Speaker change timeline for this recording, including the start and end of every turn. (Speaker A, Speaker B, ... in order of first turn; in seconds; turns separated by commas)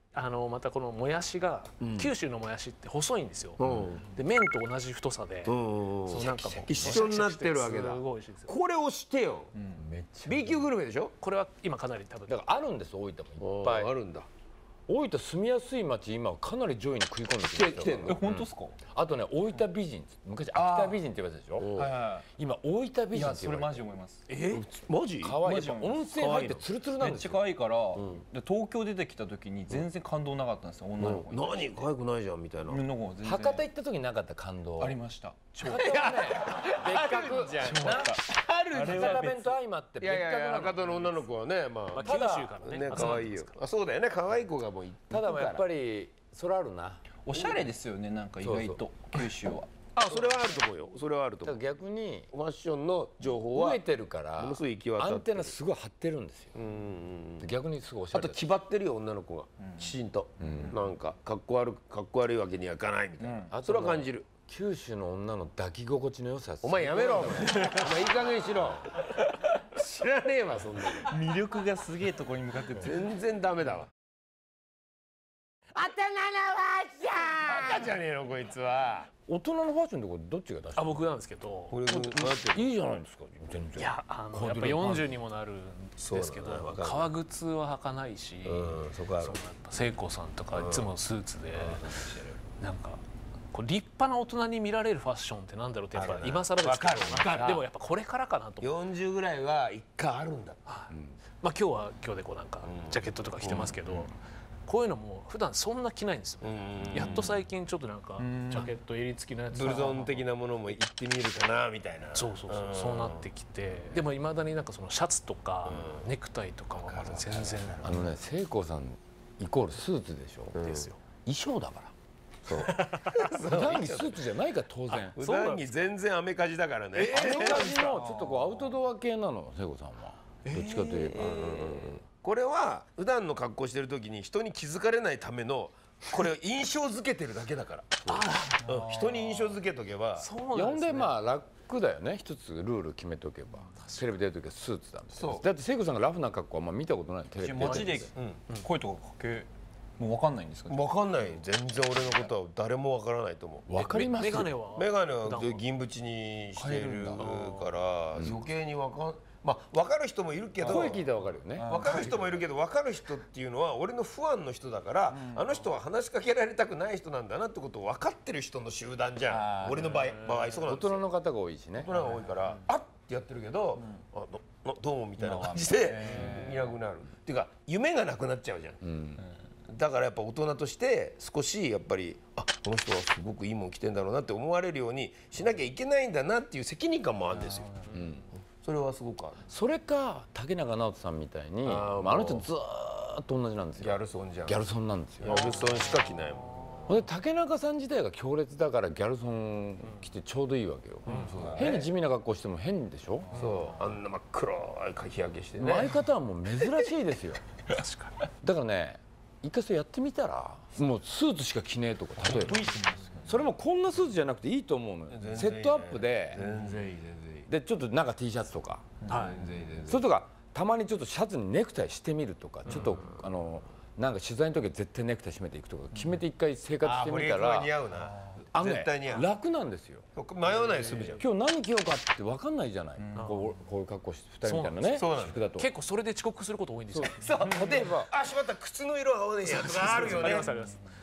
Speaker A: 0.1-3.6, Speaker B: 1.8-2.1, Speaker B: 3.6-4.0, Speaker C: 3.6-3.9, Speaker A: 4.1-5.6, Speaker B: 5.5-9.5, Speaker A: 6.1-8.5, Speaker D: 6.2-7.0, Speaker D: 9.6-9.8, Speaker C: 9.7-10.7, Speaker B: 10.3-11.1, Speaker A: 11.2-12.4, Speaker C: 12.3-13.9, Speaker B: 13.4-14.3, Speaker C: 14.9-23.9, Speaker B: 17.5-18.2, Speaker D: 18.1-18.8, Speaker D: 20.5-21.0, Speaker B: 21.6-21.9, Speaker D: 21.7-22.3, Speaker D: 23.1-24.3, Speaker A: 24.3-24.6, Speaker B: 24.5-26.7, Speaker C: 25.2-27.4, Speaker D: 25.4-26.1, Speaker D: 27.0-31.7, Speaker B: 27.9-28.2, Speaker B: 31.0-32.8, Speaker D: 32.7-33.7, Speaker C: 33.2-35.0, Speaker D: 34.8-36.0, Speaker C: 35.6-41.1, Speaker B: 35.6-45.6, Speaker D: 37.6-38.2, Speaker D: 38.7-39.5, Speaker A: 41.9-43.6, Speaker C: 42.0-43.2, Speaker C: 45.1-47.1, Speaker D: 47.2-49.7, Speaker C: 48.4-48.8, Speaker B: 49.9-51.6, Speaker C: 51.4-52.3, Speaker B: 52.3-53.8, Speaker C: 53.5-56.5, Speaker B: 54.4-55.5, Speaker B: 56.5-57.5, Speaker C: 57.4-58.4, Speaker B: 58.1-64.3, Speaker D: 59.6-59.9, Speaker C: 60.4-60.8, Speaker D: 63.2-63.6, Speaker C: 63.5-68.1, Speaker B: 66.6-69.1, Speaker B: 69.7-71.2, Speaker D: 71.1-73.0, Speaker B: 72.8-73.9, Speaker B: 75.8-79.1, Speaker C: 79.3-81.1, Speaker A: 80.8-81.8, Speaker B: 81.7-82.8, Speaker C: 81.9-85.2, Speaker A: 83.8-98.7, Speaker B: 86.0-87.1, Speaker B: 88.5-89.4, Speaker B: 90.5-90.9, Speaker B: 91.5-92.4, Speaker B: 96.0-97.7, Speaker B: 98.6-100.6, Speaker A: 100.7-104.2, Speaker C: 100.9-101.2, Speaker B: 102.6-104.0, Speaker A: 104.7-110.2, Speaker B: 106.4-107.4, Speaker D: 108.2-108.7, Speaker B: 109.5-113.2, Speaker A: 112.1-118.0, Speaker B: 115.7-116.0, Speaker B: 116.8-118.0, Speaker C: 117.8-120.6, Speaker B: 120.6-120.9, Speaker A: 120.6-121.0, Speaker C: 121.2-121.9, Speaker C: 122.5-122.9, Speaker A: 122.5-123.2, Speaker B: 123.1-124.2, Speaker C: 123.4-125.2, Speaker A: 124.9-125.9, Speaker B: 125.2-128.0, Speaker A: 127.0-127.8, Speaker C: 127.0-131.9, Speaker D: 127.2-128.8, Speaker A: 130.4-131.9, Speaker B: 130.9-140.3, Speaker A: 138.1-138.8, Speaker D: 138.6-139.6, Speaker A: 140.2-141.1, Speaker C: 140.5-148.1, Speaker A: 143.8-144.1, Speaker B: 145.2-145.5, Speaker D: 147.4-150.9, Speaker A: 147.7-148.7, Speaker B: 150.7-154.0, Speaker C: 153.7-154.5, Speaker A: 153.8-155.6, Speaker B: 154.8-161.1, Speaker D: 156.6-157.4, Speaker A: 157.2-157.7, Speaker C: 160.6-162.0, Speaker D: 161.6-162.4, Speaker B: 161.7-171.1, Speaker D: 165.2-165.5, Speaker D: 169.4-170.1, Speaker C: 169.7-170.0, Speaker C: 170.5-171.9, Speaker B: 171.8-178.8, Speaker D: 175.2-176.7, Speaker C: 178.8-179.2, Speaker B: 179.7-187.9, Speaker D: 187.4-187.9, Speaker C: 187.9-188.2, Speaker B: 188.6-189.4, Speaker C: 189.5-195.5, Speaker B: 191.6-192.4, Speaker B: 193.8-194.6, Speaker B: 195.2-196.9, Speaker A: 195.3-195.7, Speaker C: 196.9-203.3, Speaker A: 201.1-201.5, Speaker B: 201.1-201.9, Speaker B: 203.3-206.0, Speaker C: 205.6-207.4, Speaker A: 207.7-208.2, Speaker C: 208.4-212.6, Speaker D: 212.2-213.4, Speaker B: 212.3-213.0, Speaker C: 213.2-216.4, Speaker B: 215.1-217.5, Speaker C: 217.5-219.1, Speaker A: 219.1-219.4, Speaker D: 219.1-219.6, Speaker B: 219.1-220.1, Speaker C: 219.9-227.8, Speaker B: 222.7-223.0, Speaker B: 226.8-229.3, Speaker C: 228.5-230.1, Speaker B: 230.2-231.2, Speaker A: 230.7-231.2, Speaker C: 231.2-235.7, Speaker D: 233.0-233.5, Speaker A: 233.2-233.5, Speaker A: 234.4-237.3, Speaker B: 234.9-235.4, Speaker C: 236.9-238.1, Speaker B: 237.2-240.6, Speaker A: 239.4-240.8, Speaker D: 240.1-240.8